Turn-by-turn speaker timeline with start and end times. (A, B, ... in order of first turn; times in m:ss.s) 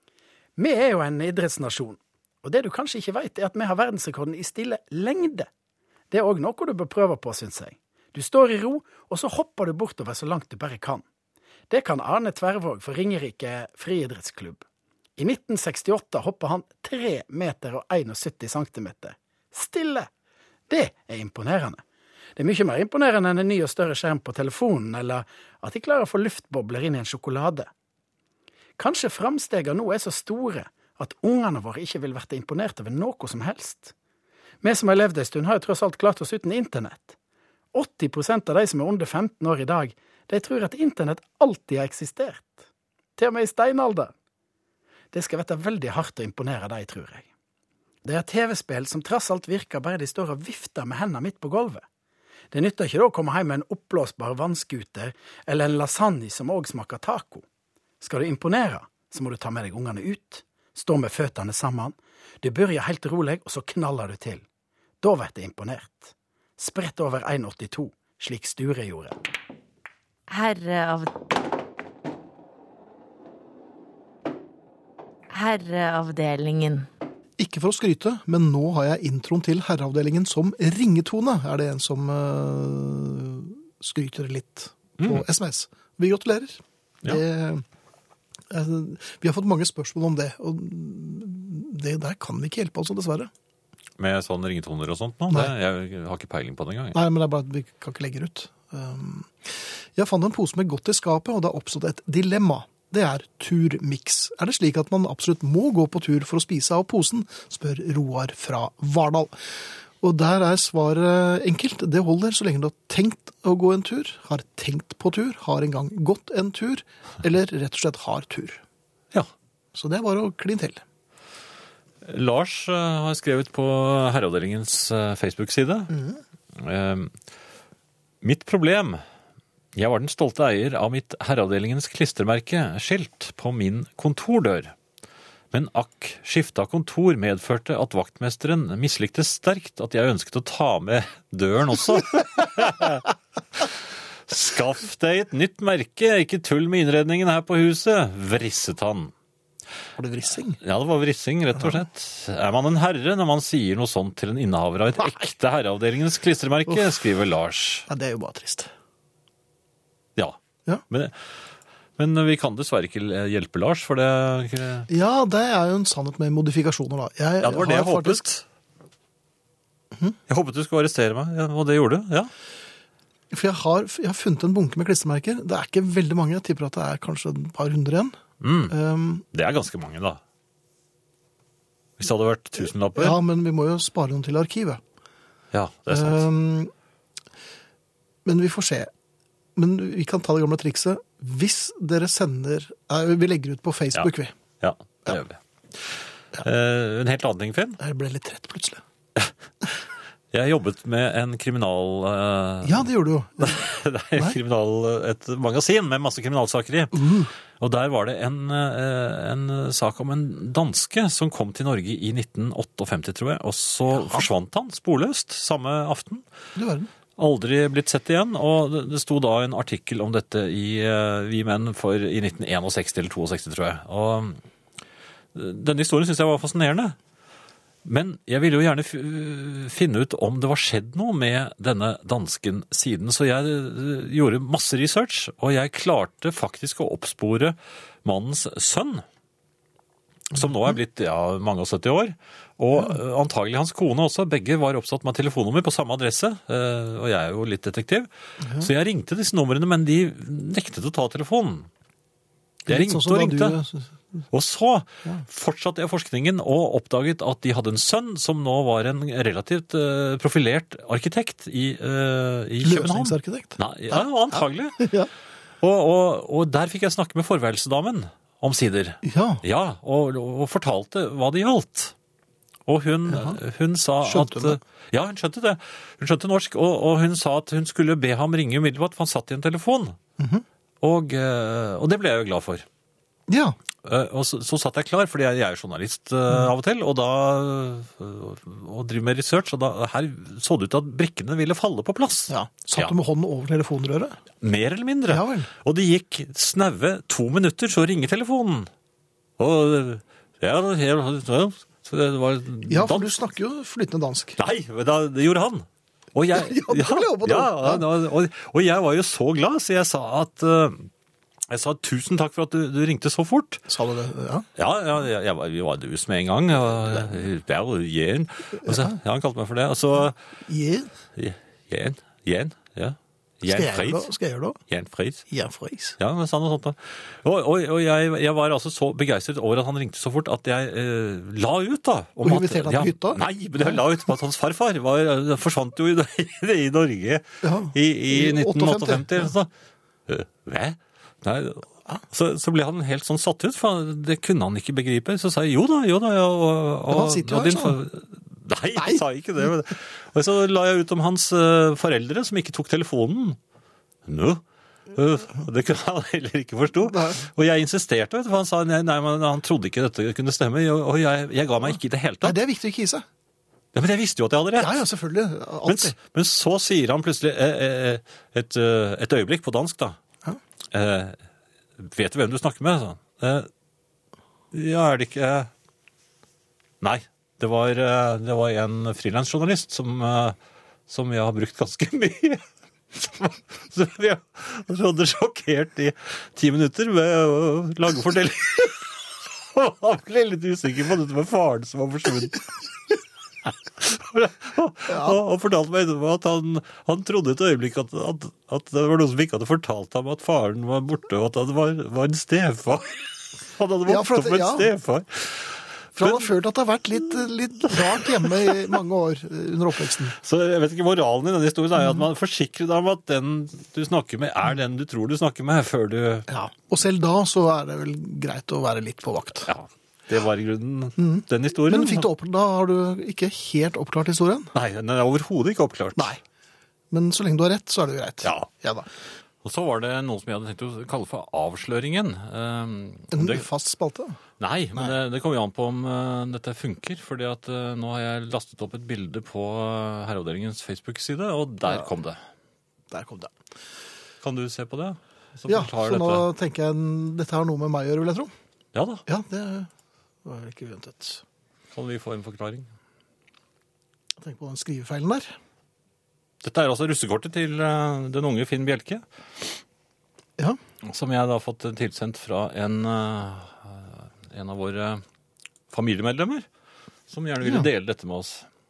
0:00.6-0:05.5 A
0:06.1-0:11.0 A
0:11.7-0:14.6 A
0:15.2-0:20.1 A
0:20.7-0:21.8 A
0:22.4-0:27.7 A
0:28.8-0:33.9 A
0:34.6-0:37.1 A
0:37.7-0:42.6 A
0:43.2-0:44.1 A
0:45.1-0:47.3 A
0:48.0-0:51.8 A
0:52.5-0:57.4 A
0:58.0-1:04.4 A
1:05.0-1:09.2 A
1:10.3-1:11.1 B
1:15.3-1:16.8 B
1:17.4-1:27.6 C
1:25.0-1:25.2 D
1:28.5-1:33.3 C
1:34.0-1:37.0 D
1:36.9-1:58.6 C
1:59.7-2:00.8 C
2:02.0-2:06.0 D
2:06.6-2:07.1 D
2:08.2-2:09.0 D
2:09.8-2:14.7 D
2:15.5-2:23.8 D
2:24.3-2:29.1 D
2:30.0-2:30.6 C
2:30.6-2:37.9 D
2:37.9-2:38.7 C
2:40.9-2:41.3 D
2:42.0-2:44.9 D
2:44.9-2:48.2 C
2:47.4-2:48.4 D
2:50.3-2:52.3 D
2:53.3-2:58.2 C
2:58.4-2:58.7 D
2:58.7-2:59.2 C
2:59.3-3:00.2 D
3:02.0-3:03.2 D
3:02.9-3:04.8 C
3:05.5-3:06.3 D
3:05.9-3:06.7 C
3:08.2-3:08.9 C
3:09.6-3:14.3 C
3:14.6-3:17.8 D
3:17.8-3:18.8 C
3:20.3-3:22.9 D
3:22.6-3:23.6 C
3:23.4-3:36.2 D
3:26.9-3:27.3 C
3:33.9-3:34.3 C
3:36.6-3:36.9 C
3:37.2-3:44.4 D
3:45.3-3:47.0 D
3:47.8-3:59.0 D
4:00.3-4:11.7 D
4:08.4-4:08.7 C
4:12.6-4:13.6 D
4:12.7-4:13.9 C
4:14.3-4:24.9 D
4:22.6-4:25.1 C
4:25.6-4:31.9 D
4:29.0-4:29.4 C
4:32.7-4:40.0 D
4:33.1-4:33.4 C
4:34.0-4:34.6 C
4:40.2-4:40.4 C
4:40.8-4:42.6 D
4:43.3-4:43.6 C
4:43.8-4:52.9 D
4:52.3-4:54.2 C
4:54.4-4:58.7 D
4:55.1-4:55.5 C
4:59.4-5:03.1 D
5:02.7-5:04.4 C
5:04.4-5:10.9 D
5:06.3-5:07.8 C
5:11.5-5:13.6 D
5:13.7-5:14.5 C
5:14.6-5:20.1 D
5:18.6-5:18.9 C
5:20.4-5:20.9 C
5:21.2-5:24.1 D
5:23.4-5:24.6 C
5:24.7-5:25.2 D
5:25.3-5:26.0 C
5:26.0-5:39.5 D
5:32.2-5:33.8 C
5:37.4-5:39.3 C
5:40.1-5:53.4 D
5:46.9-5:47.8 C
5:54.0-6:02.4 D
5:56.8-5:57.3 C
6:02.2-6:03.0 C
6:03.7-6:04.8 D
6:04.6-6:05.9 C
6:05.6-6:10.0 D
6:10.7-6:11.2 D
6:11.8-6:13.5 D
6:14.5-6:15.5 D
6:16.8-6:20.4 D
6:20.9-6:22.4 D
6:22.9-6:32.6 D
6:33.4-6:46.3 D
6:34.9-6:35.2 C
6:43.8-6:44.7 C
6:46.0-6:50.2 C
6:48.0-6:48.5 D
6:50.1-6:56.3 D
6:56.3-6:59.5 C
6:59.4-7:02.1 D
7:01.0-7:04.5 C
7:04.5-7:06.2 D
7:05.9-7:06.2 C
7:06.9-7:08.9 C
7:08.2-7:08.5 D
7:09.4-7:13.5 D
7:13.1-7:14.2 C
7:14.4-7:22.2 D
7:22.9-7:23.3 C
7:24.2-7:26.2 D
7:25.5-7:28.3 C
7:28.7-7:29.0 D
7:29.1-7:29.7 C
7:30.2-7:31.2 C
7:31.7-7:32.7 D
7:34.2-7:35.3 C
7:36.4-7:39.6 D
7:40.8-7:45.0 D
7:45.7-7:46.4 D
7:47.1-7:48.4 D
7:47.4-7:47.7 C